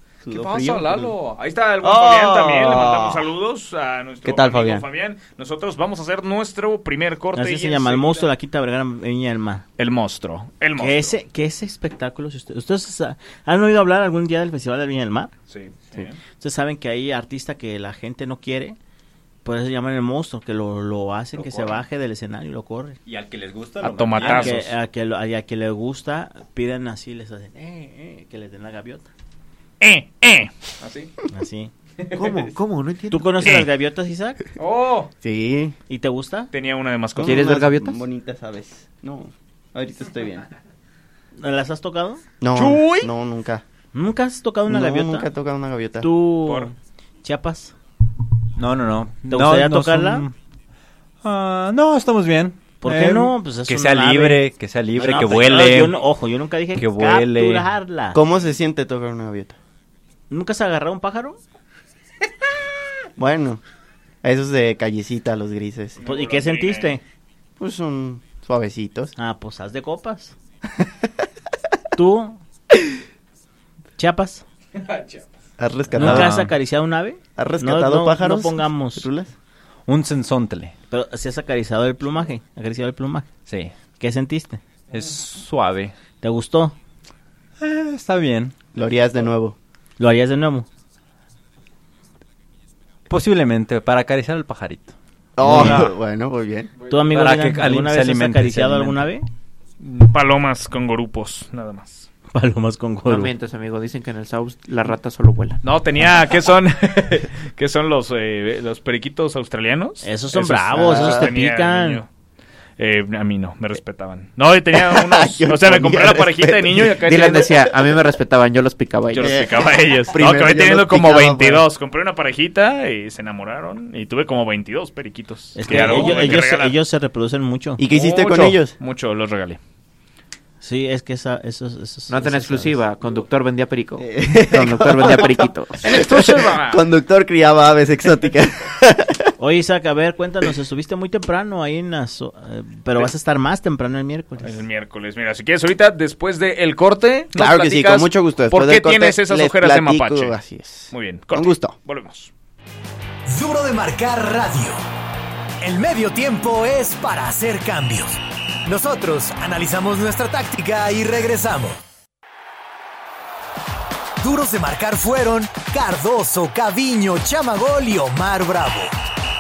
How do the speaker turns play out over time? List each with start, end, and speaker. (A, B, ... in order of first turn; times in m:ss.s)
0:00.2-0:01.1 A
0:00.3-0:08.3 B
0:01.8-0:03.3 A
0:04.2-0:04.8 A
0:07.3-0:09.6 C
0:09.8-0:11.2 B
0:10.8-0:15.3 C
0:15.5-0:16.2 B
0:16.4-0:18.8 C
0:19.4-0:23.0 C
0:23.1-0:24.7 D
0:23.8-0:24.7 B
0:24.2-0:29.1 C
0:29.8-0:31.1 B
0:31.3-0:31.7 C
0:32.1-0:33.4 E
0:33.1-0:34.4 C
0:33.4-0:33.7 B
0:34.6-0:35.1 B
0:35.2-0:35.8 A
0:35.9-0:36.5 C
0:36.5-0:37.6 B
0:37.2-0:40.5 A
0:37.2-0:38.0 E
0:41.4-0:42.2 C
0:42.4-0:43.6 A
0:42.5-0:43.1 B
0:43.9-0:45.3 C
0:44.7-0:46.1 A
0:46.0-0:47.7 C
0:46.4-0:46.7 B
0:48.6-0:50.4 D
0:49.3-0:50.2 C
0:51.2-0:56.0 D
0:52.8-0:58.2 C
0:56.8-0:57.7 D
0:58.1-0:59.6 A
1:00.3-1:01.4 C
1:03.2-1:03.6 A
1:04.2-1:06.0 A
1:06.0-1:07.0 B
1:06.0-1:07.0 C
1:07.6-1:09.1 A
1:09.2-1:10.4 C
1:12.0-1:12.4 C
1:14.0-1:14.4 C
1:14.8-1:15.2 B
1:15.6-1:16.4 A
1:15.9-1:19.1 C
1:16.0-1:16.5 D
1:17.4-1:19.3 A
1:19.9-1:20.8 D
1:20.9-1:23.3 C
1:23.5-1:23.8 D
1:24.0-1:24.6 C
1:24.9-1:25.9 D
1:26.2-1:26.8 C
1:27.6-1:28.6 D
1:28.7-1:29.6 A
1:30.0-1:30.7 C
1:33.1-1:35.9 D
1:35.4-1:36.7 A
1:35.4-1:35.9 C
1:36.9-1:39.3 C
1:37.0-1:39.0 D
1:39.8-1:42.1 B
1:42.3-1:43.3 C
1:43.1-1:45.6 E
1:45.6-1:52.1 B
1:50.0-1:52.0 C
1:50.8-1:51.3 A
1:52.8-1:57.5 B
1:54.7-1:57.2 A
1:57.0-1:59.4 E
1:59.1-2:06.8 B
1:59.2-2:01.7 A
2:05.6-2:07.8 C
2:05.7-2:06.2 E
2:05.8-2:06.1 A
2:07.8-2:08.8 A
2:07.9-2:09.6 B
2:10.6-2:12.8 C
2:12.1-2:15.8 E
2:14.0-2:19.3 A
2:15.8-2:16.8 B
2:19.4-2:24.6 C
2:24.4-2:30.4 B
2:27.4-2:31.8 A
2:30.9-2:32.3 B
2:33.3-2:34.8 F
2:35.6-2:41.8 F
2:44.2-2:48.9 F